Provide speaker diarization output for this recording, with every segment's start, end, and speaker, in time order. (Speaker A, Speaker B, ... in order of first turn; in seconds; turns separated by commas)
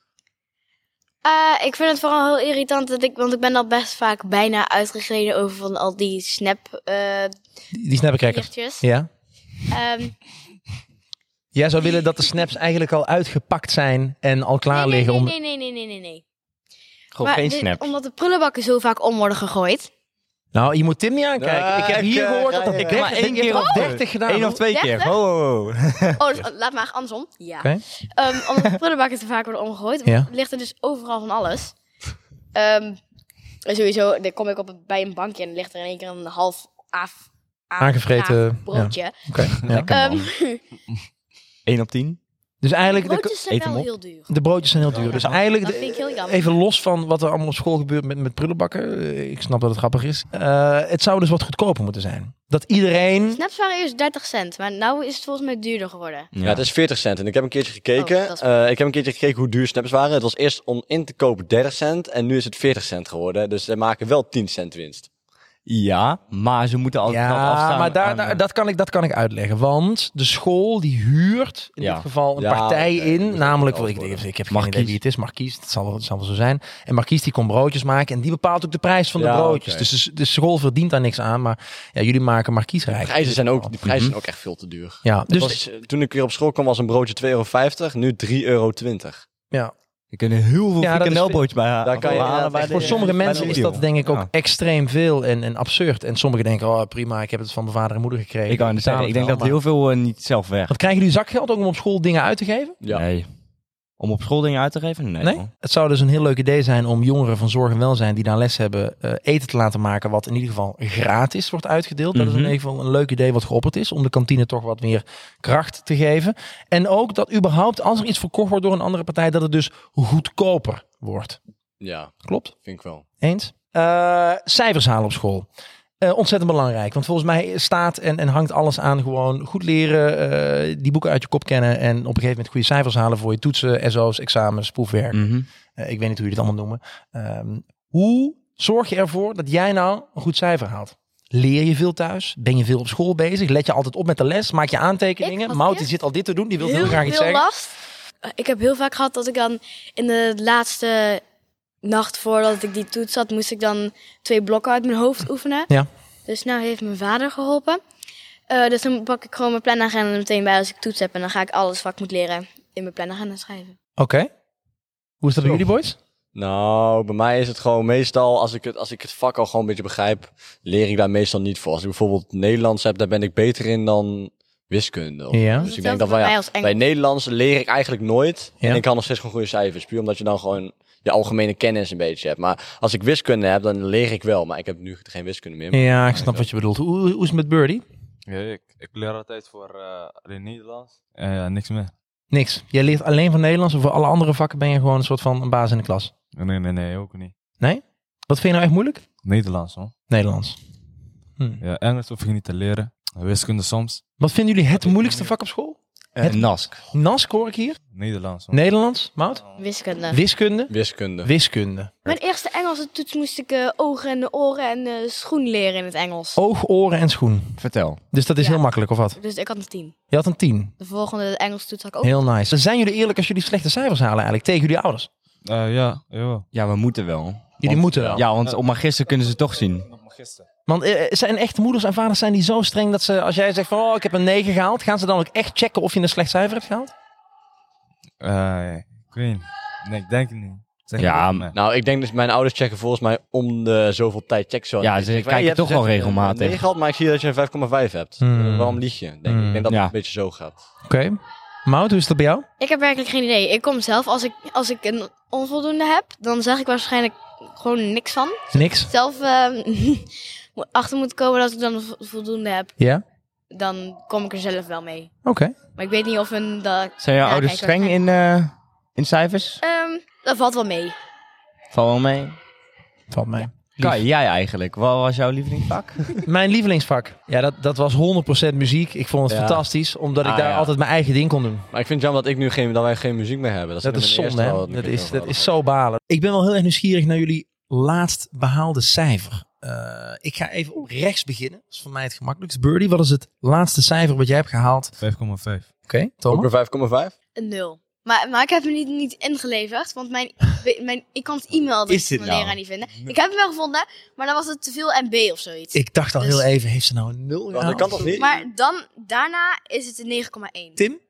Speaker A: 1.2-7.3, Speaker B: 7.7-9.1, Speaker A: 8.2-8.8, Speaker A: 9.7-10.2, Speaker B: 11.5-15.3, Speaker A: 14.7-16.2, Speaker C: 17.1-17.9, Speaker A: 17.2-19.9, Speaker B: 20.5-24.6, Speaker D: 21.4-23.2, Speaker C: 22.7-26.2, Speaker A: 23.5-23.9, Speaker A: 24.7-25.1, Speaker A: 26.2-31.8, Speaker B: 30.0-30.3, Speaker A: 32.5-33.0, Speaker A: 33.6-40.6, Speaker B: 37.8-39.9, Speaker C: 39.7-40.3, Speaker C: 41.6-42.2, Speaker B: 42.6-43.3, Speaker A: 42.8-44.3, Speaker C: 43.5-43.9, Speaker B: 44.3-53.4, Speaker E: 44.9-45.3, Speaker A: 44.9-46.5, Speaker A: 53.3-56.3, Speaker C: 56.3-56.7, Speaker D: 56.4-65.1, Speaker A: 58.0-58.4, Speaker C: 65.7-68.4, Speaker B: 67.1-83.7, Speaker C: 71.8-72.0, Speaker D: 72.4-74.2, Speaker C: 74.5-75.0, Speaker D: 79.2-79.9, Speaker D: 83.0-89.2, Speaker C: 83.8-84.1, Speaker B: 85.0-85.6, Speaker C: 90.1-94.3, Speaker B: 90.8-91.4, Speaker D: 91.8-93.8, Speaker B: 92.0-99.6, Speaker C: 98.5-100.8, Speaker B: 100.7-102.8, Speaker C: 102.9-103.3, Speaker C: 104.0-105.5, Speaker B: 105.2-121.4, Speaker C: 112.1-112.5, Speaker D: 121.8-123.0, Speaker B: 122.2-122.5, Speaker B: 123.2-125.5, Speaker B: 126.0-147.4, Speaker C: 135.1-135.4, Speaker A: 145.2-145.9, Speaker A: 146.6-151.2, Speaker A: 151.8-155.7, Speaker A: 156.3-157.8, Speaker A: 158.5-163.8, Speaker B: 164.0-164.3, Speaker B: 165.2-165.9, Speaker D: 166.3-186.3, Speaker B: 175.3-175.7, Speaker A: 175.6-176.8, Speaker B: 185.7-187.8, Speaker E: 188.3-191.9, Speaker B: 192.3-196.1, Speaker E: 196.3-197.3, Speaker B: 197.6-199.0, Speaker E: 199.2-199.9, Speaker B: 200.1-200.6, Speaker E: 201.6-204.0, Speaker B: 204.2-207.8, Speaker E: 204.8-205.3, Speaker C: 206.2-206.8, Speaker E: 207.9-208.6, Speaker B: 208.5-209.4, Speaker A: 209.6-210.2, Speaker B: 210.1-212.0, Speaker D: 210.7-211.3, Speaker A: 212.0-216.4, Speaker B: 216.4-217.6, Speaker C: 217.6-218.0, Speaker B: 218.1-219.2, Speaker A: 218.4-218.6, Speaker A: 219.2-219.9, Speaker B: 220.1-220.7, Speaker A: 220.8-222.2, Speaker B: 222.0-225.1, Speaker E: 225.4-226.4, Speaker C: 226.5-229.9, Speaker B: 227.6-228.2, Speaker D: 227.9-228.2, Speaker E: 229.9-230.4, Speaker B: 230.7-236.9, Speaker E: 238.2-241.5, Speaker C: 241.0-241.5, Speaker D: 241.5-250.6, Speaker C: 244.8-246.6, Speaker B: 248.2-249.7, Speaker C: 249.7-249.9, Speaker B: 250.9-252.4, Speaker A: 252.6-262.8, Speaker B: 258.5-258.9, Speaker A: 263.5-265.1, Speaker B: 265.2-265.5, Speaker A: 265.8-268.0, Speaker C: 267.0-269.6, Speaker A: 269.6-270.9, Speaker C: 271.7-272.4, Speaker B: 273.1-274.0, Speaker C: 273.8-276.2, Speaker B: 276.2-281.7, Speaker D: 279.3-279.6, Speaker C: 280.2-280.7, Speaker D: 281.7-285.5, Speaker B: 283.8-294.9, Speaker E: 295.0-295.7, Speaker B: 295.9-296.5, Speaker D: 296.3-297.1, Speaker A: 297.4-306.5, Speaker C: 301.9-302.6, Speaker B: 305.7-308.2, Speaker D: 307.5-308.4, Speaker A: 308.1-310.8